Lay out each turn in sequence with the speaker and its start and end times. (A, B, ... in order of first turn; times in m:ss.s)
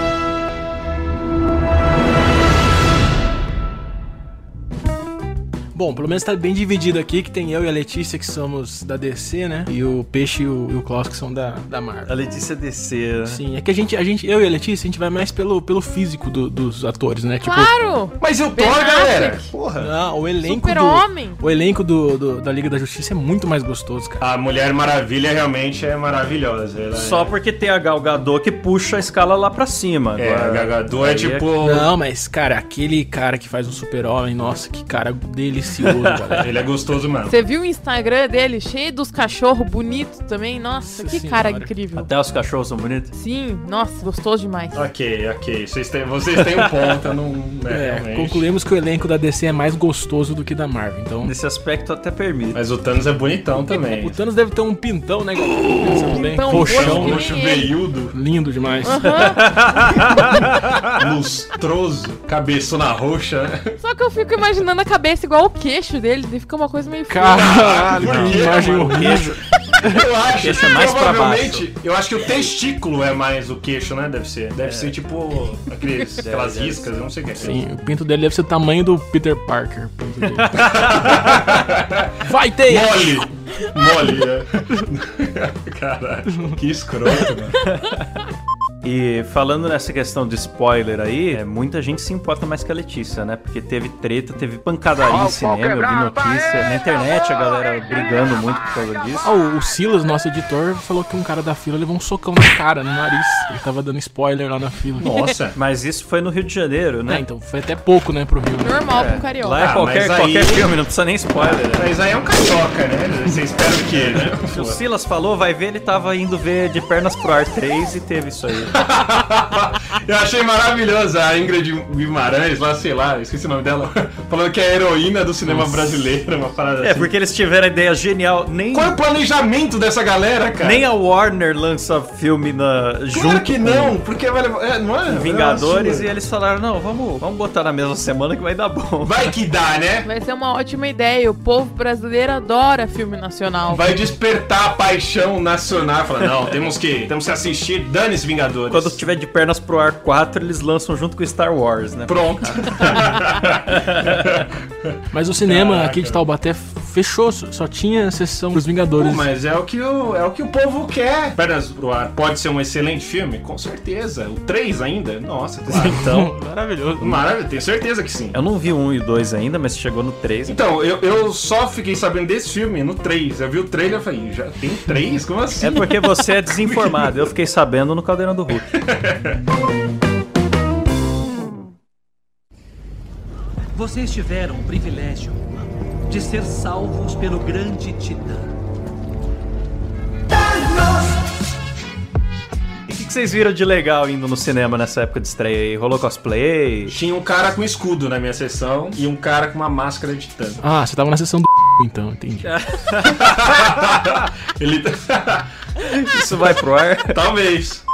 0:05.7-0:12.1 A
0:12.1-0:13.4 B
0:13.2-0:17.7 A
0:17.4-0:19.5 C
0:18.2-0:19.9 D
0:19.8-0:24.2 A
0:20.4-0:21.4 C
0:24.2-0:27.3 D
0:26.9-0:31.5 B
0:30.2-0:31.9 D
0:31.6-0:36.5 A
0:35.8-0:36.5 B
0:36.4-0:37.4 D
0:37.3-0:42.1 C
0:40.8-0:41.7 A
0:41.9-0:43.1 B
0:43.1-0:44.9 C
0:44.8-0:48.4 D
0:46.4-0:47.1 B
0:47.7-0:51.3 A
0:51.2-0:52.6 B
0:52.5-0:54.2 D
0:53.7-0:57.3 A
0:55.9-0:57.7 C
0:56.5-0:58.2 D
0:58.1-0:59.0 A
0:58.8-0:59.9 C
0:59.0-1:00.8 B
1:00.8-1:03.8 D
1:03.8-1:07.7 C
1:07.1-1:10.0 A
1:07.4-1:17.6 D
1:08.0-1:09.4 B
1:10.3-1:11.7 B
1:14.6-1:14.9 B
1:16.2-1:16.9 B
1:17.4-1:20.6 A
1:20.2-1:21.4 B
1:20.6-1:27.6 D
1:22.2-1:23.2 A
1:26.3-1:26.6 A
1:27.6-1:28.1 B
1:28.8-1:39.3 B
1:39.2-1:45.2 A
1:45.0-1:45.6 D
1:45.6-1:47.2 B
1:47.1-1:48.8 A
1:48.6-1:49.7 C
1:48.9-1:51.9 B
1:49.6-1:50.7 D
1:51.4-1:54.8 D
1:54.1-1:58.8 B
1:58.7-2:07.1 D
2:05.4-2:05.9 A
2:06.8-2:09.0 B
2:08.7-2:10.9 D
2:10.6-2:14.0 B
2:13.1-2:16.1 D
2:15.1-2:19.3 B
2:19.0-2:20.1 D
2:20.0-2:23.9 C
2:23.7-2:29.0 D
2:28.7-2:34.4 B
2:32.1-2:36.2 D
2:35.1-2:39.3 A
2:39.0-2:46.3 D
2:45.8-2:47.2 A
2:47.0-2:48.4 D
2:48.3-2:50.6 B
2:50.5-2:56.1 D
2:55.6-2:58.7 B
2:56.6-2:57.2 D
2:58.7-2:59.4 D
3:03.8-3:08.5 E
3:12.9-3:16.9 B
3:16.9-3:20.6 D
3:20.6-3:22.5 A
3:22.4-3:24.0 B
3:23.0-3:25.5 D
3:25.8-3:27.2 B
3:27.1-3:27.8 D